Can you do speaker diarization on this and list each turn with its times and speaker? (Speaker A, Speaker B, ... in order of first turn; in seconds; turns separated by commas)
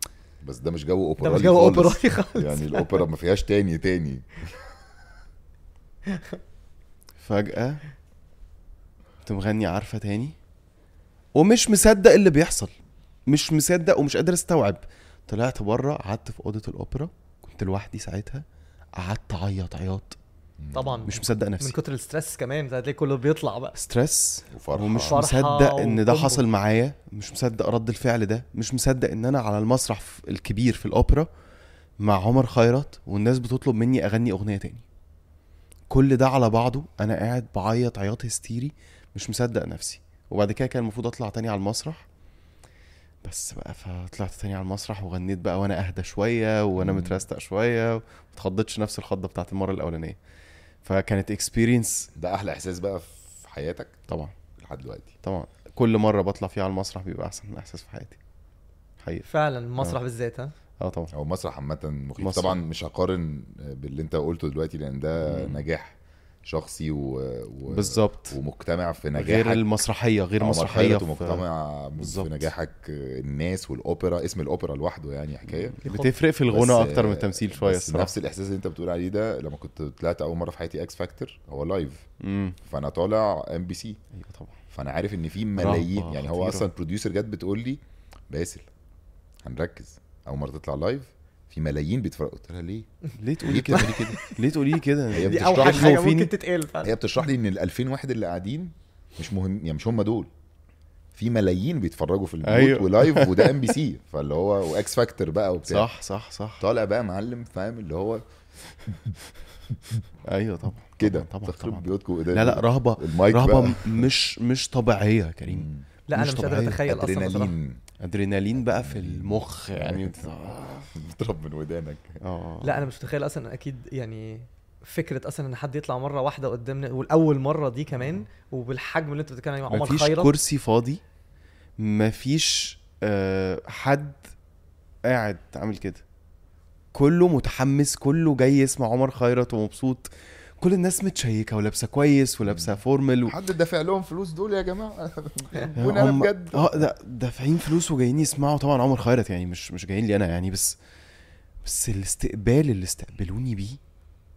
Speaker A: 0.4-4.3, Speaker B: 1.2-3.0, Speaker C: 7.2-7.8, Speaker C: 9.2-10.4, Speaker C: 11.3-12.7, Speaker C: 13.3-18.4, Speaker C: 18.9-20.2, Speaker A: 20.6-21.1, Speaker B: 20.7-23.7, Speaker C: 21.1-21.7, Speaker C: 23.7-31.3, Speaker A: 24.5-25.2, Speaker B: 25.0-26.4, Speaker C: 32.0-34.8, Speaker C: 35.9-42.0, Speaker C: 43.2-50.2, Speaker A: 46.8-47.2, Speaker C: 50.8-52.1, Speaker A: 52.1-54.0, Speaker C: 54.1-54.3, Speaker A: 54.6-55.1, Speaker C: 55.2-58.2, Speaker C: 59.0-60.0, Speaker B: 59.3-60.5, Speaker C: 60.8-61.1, Speaker A: 61.1-69.6, Speaker C: 62.2-62.6, Speaker C: 65.2-65.6, Speaker C: 67.7-68.4, Speaker C: 69.2-71.4, Speaker A: 70.4-75.8, Speaker C: 72.0-72.5, Speaker C: 75.8-78.1, Speaker B: 75.8-76.1, Speaker A: 76.5-82.0, Speaker C: 82.2-82.6, Speaker A: 82.6-84.0, Speaker C: 84.1-84.5, Speaker A: 84.7-88.7, Speaker C: 85.5-86.7, Speaker A: 89.4-92.9, Speaker C: 93.2-96.3, Speaker A: 93.4-94.2, Speaker B: 93.8-94.3, Speaker A: 95.1-96.0, Speaker B: 95.2-97.0, Speaker A: 96.8-100.3, Speaker A: 101.1-105.9, Speaker C: 102.4-103.5, Speaker C: 105.7-106.6, Speaker A: 106.6-108.2, Speaker A: 108.9-109.1, Speaker C: 110.3-116.8, Speaker A: 111.0-114.1, Speaker A: 115.5-115.9, Speaker B: 116.1-117.5, Speaker A: 116.8-117.8, Speaker C: 118.0-120.9, Speaker A: 118.7-122.2, Speaker C: 122.2-122.8, Speaker B: 122.6-130.3, Speaker C: 129.7-131.0, Speaker C: 131.8-134.2, Speaker C: 135.1-136.0, Speaker C: 136.9-143.3, Speaker A: 142.5-146.9, Speaker C: 145.8-150.8, Speaker C: 151.6-153.8